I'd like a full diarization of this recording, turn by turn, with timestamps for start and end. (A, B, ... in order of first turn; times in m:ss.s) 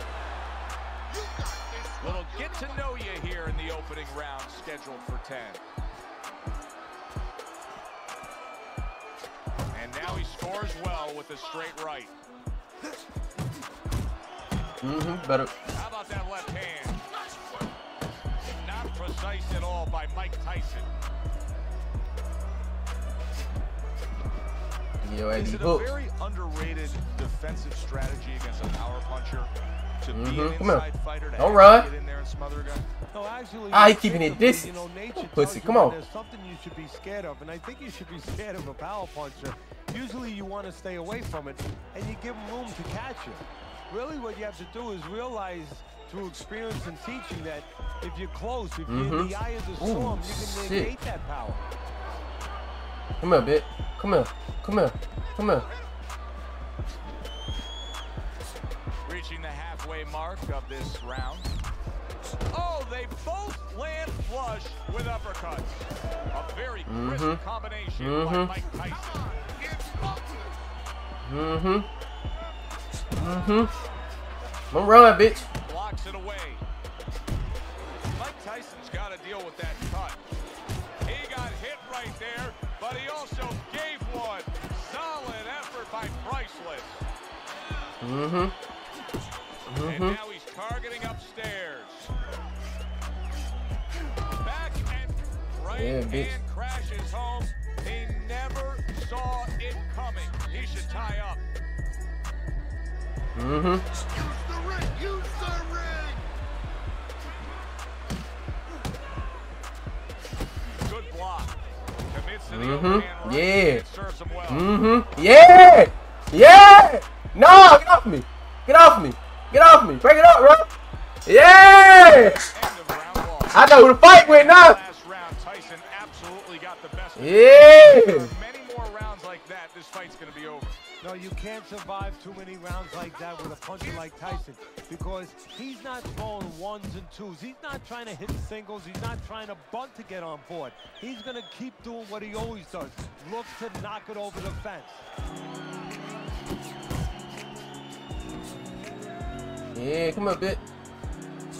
0:02.0-0:05.6 A
0:09.7-0:12.2 A
0:14.8-0:15.5 B
0:15.7-0:17.0 A
0:18.6-0:20.9 A
0:25.0-0:25.9 B
0:25.3-0:32.9 A
0:30.1-0:30.8 B
0:31.4-0:31.9 B
0:33.1-0:51.6 C
0:33.7-0:36.0 B
0:48.9-0:50.9 B
0:53.2-0:55.7 B
0:59.0-1:01.5 A
1:02.5-1:09.2 A
1:06.9-1:07.4 B
1:08.0-1:08.5 B
1:11.2-1:11.9 B
1:13.2-1:13.7 B
1:14.7-1:15.5 B
1:15.6-1:16.6 A
1:18.1-1:20.2 A
1:21.0-1:27.1 A
1:28.0-1:28.6 B
1:29.7-1:30.2 B
1:29.8-1:32.1 A
1:34.4-1:41.4 A
1:35.7-1:36.4 B
1:43.4-1:43.8 B
1:50.8-1:51.5 A
1:52.1-1:54.7 A
1:52.5-1:53.8 B
1:54.5-2:00.7 B
2:01.3-2:02.4 B
2:02.5-2:10.7 A
2:03.5-2:04.8 B
2:07.2-2:08.3 B
2:11.0-2:25.1 C
2:29.8-2:30.6 B